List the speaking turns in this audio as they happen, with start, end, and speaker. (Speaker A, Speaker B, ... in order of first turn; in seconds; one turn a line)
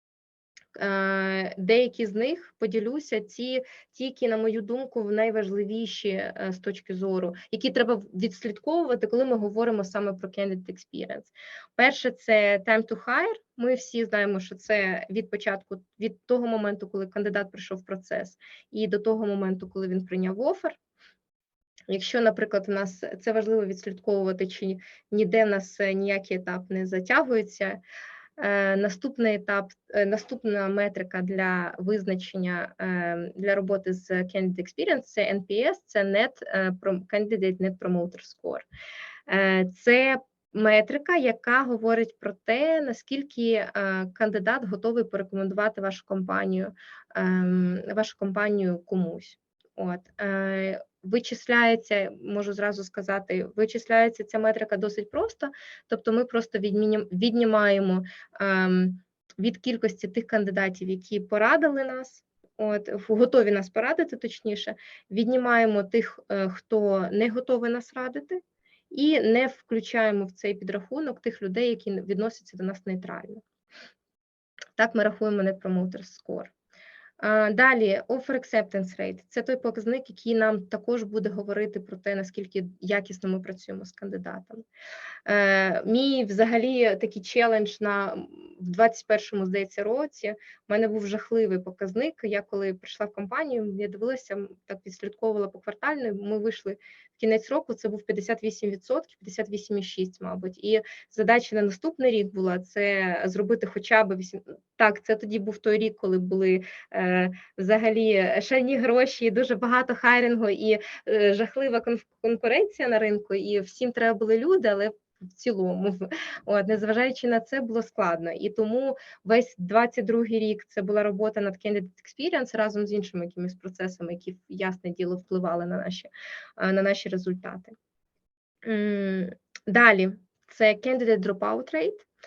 Speaker A: 0.7-20.8
Speaker A: 21.9-27.8
Speaker A: 28.4-38.6
Speaker A: 39.3-73.4
Speaker A: 74.8-76.5
Speaker A: 77.2-84.6
Speaker A: 85.2-127.7
Speaker A: 128.6-132.1